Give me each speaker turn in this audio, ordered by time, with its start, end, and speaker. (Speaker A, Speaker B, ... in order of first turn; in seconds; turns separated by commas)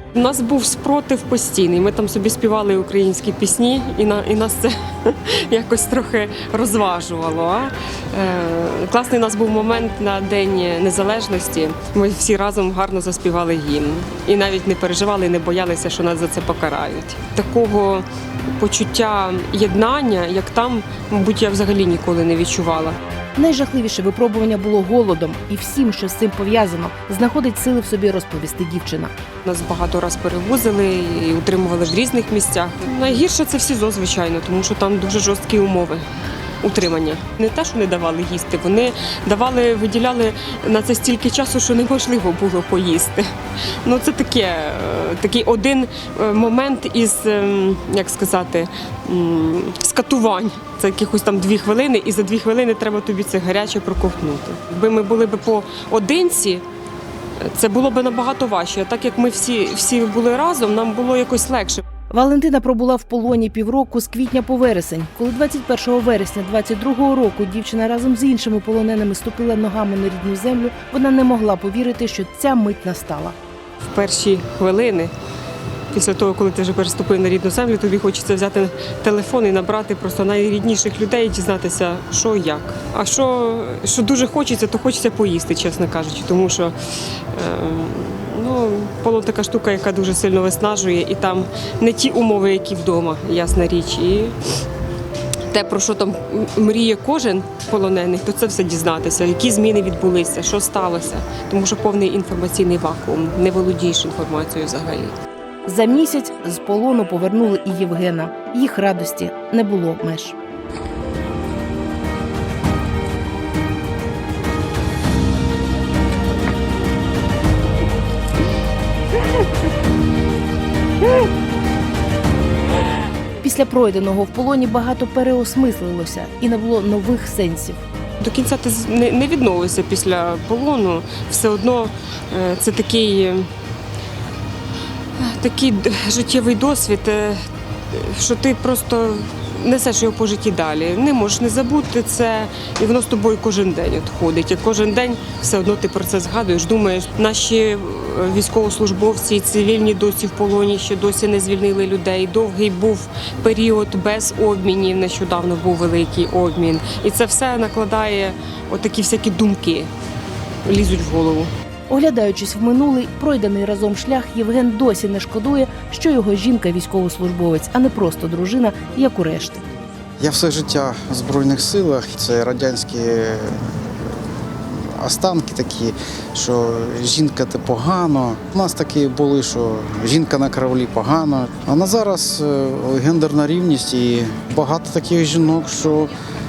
Speaker A: 0.1-18.1, Speaker A: 18.6-23.0, Speaker B: 23.4-29.1, Speaker A: 29.4-36.0, Speaker A: 36.6-43.3, Speaker A: 43.8-56.6, Speaker A: 57.4-61.8, Speaker B: 62.1-73.4, Speaker A: 73.8-75.1, Speaker A: 75.9-94.4, Speaker A: 95.5-105.1, Speaker B: 105.7-110.4, Speaker B: 123.4-127.8, Speaker A: 128.2-133.5, Speaker A: 135.2-159.9, Speaker A: 160.7-161.5, Speaker B: 161.9-169.7, Speaker C: 170.2-173.8, Speaker C: 174.7-186.1